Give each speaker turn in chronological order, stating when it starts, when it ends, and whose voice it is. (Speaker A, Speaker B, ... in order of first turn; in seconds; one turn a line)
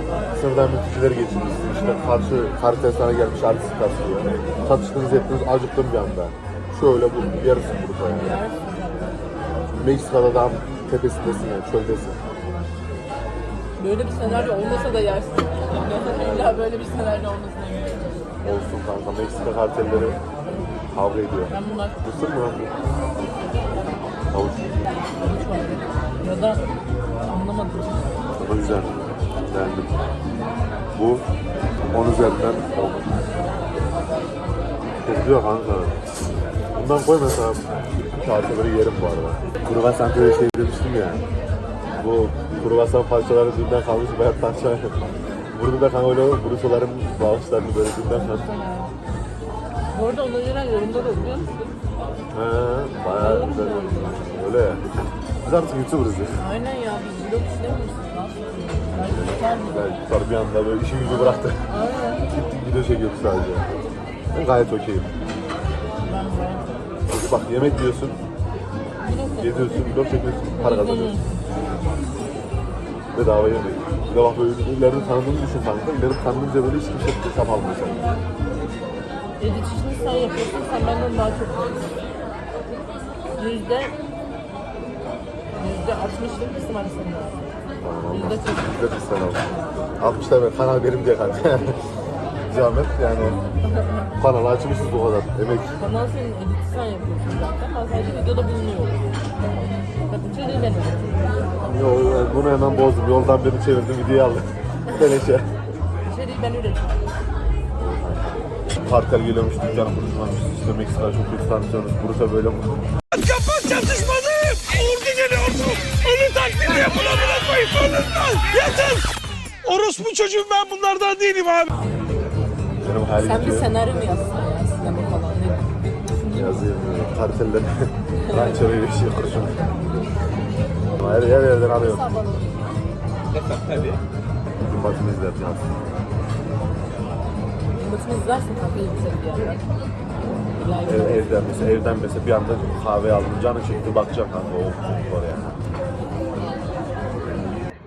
Speaker A: 0.3-8.4
Speaker B: 8.1-9.3
Speaker A: 9.7-12.2
Speaker B: 13.8-18.4
Speaker A: 15.9-16.7
Speaker A: 18.4-20.2
Speaker A: 20.9-22.8
Speaker B: 21.5-22.0
Speaker A: 24.0-24.9
Speaker B: 25.1-26.6
Speaker B: 27.3-28.1
Speaker A: 28.4-30.0
Speaker A: 30.9-31.2
Speaker A: 31.9-33.2
Speaker A: 35.0-36.0
Speaker A: 36.7-41.2
Speaker A: 41.9-45.0
Speaker A: 45.5-48.5
Speaker B: 48.4-48.9
Speaker B: 49.9-51.7
Speaker A: 52.3-54.8
Speaker B: 53.2-54.2
Speaker A: 55.4-56.4
Speaker B: 56.4-60.0
Speaker A: 59.1-61.6
Speaker B: 61.7-62.3
Speaker A: 62.3-63.7
Speaker A: 64.3-65.1
Speaker B: 66.0-66.8
Speaker A: 67.1-68.2
Speaker B: 69.0-71.8
Speaker A: 69.4-71.2
Speaker A: 73.1-78.2
Speaker B: 79.4-82.1
Speaker B: 83.3-84.0
Speaker B: 85.5-87.4
Speaker A: 87.8-89.5
Speaker B: 88.1-88.8
Speaker B: 89.5-89.8
Speaker A: 90.0-91.8
Speaker A: 92.5-93.4
Speaker B: 93.7-94.1
Speaker A: 94.2-95.8
Speaker B: 95.8-101.5
Speaker A: 101.6-105.5
Speaker B: 106.0-106.9
Speaker A: 107.8-112.8
Speaker C: 113.1-119.1
Speaker C: 119.6-121.7
Speaker A: 122.8-123.7
Speaker B: 123.1-126.5
Speaker A: 126.3-129.7
Speaker B: 128.2-128.6
Speaker A: 130.9-132.1
Speaker B: 131.7-132.8
Speaker A: 134.6-135.8
Speaker B: 137.7-139.6
Speaker B: 140.6-141.2
Speaker A: 140.8-145.6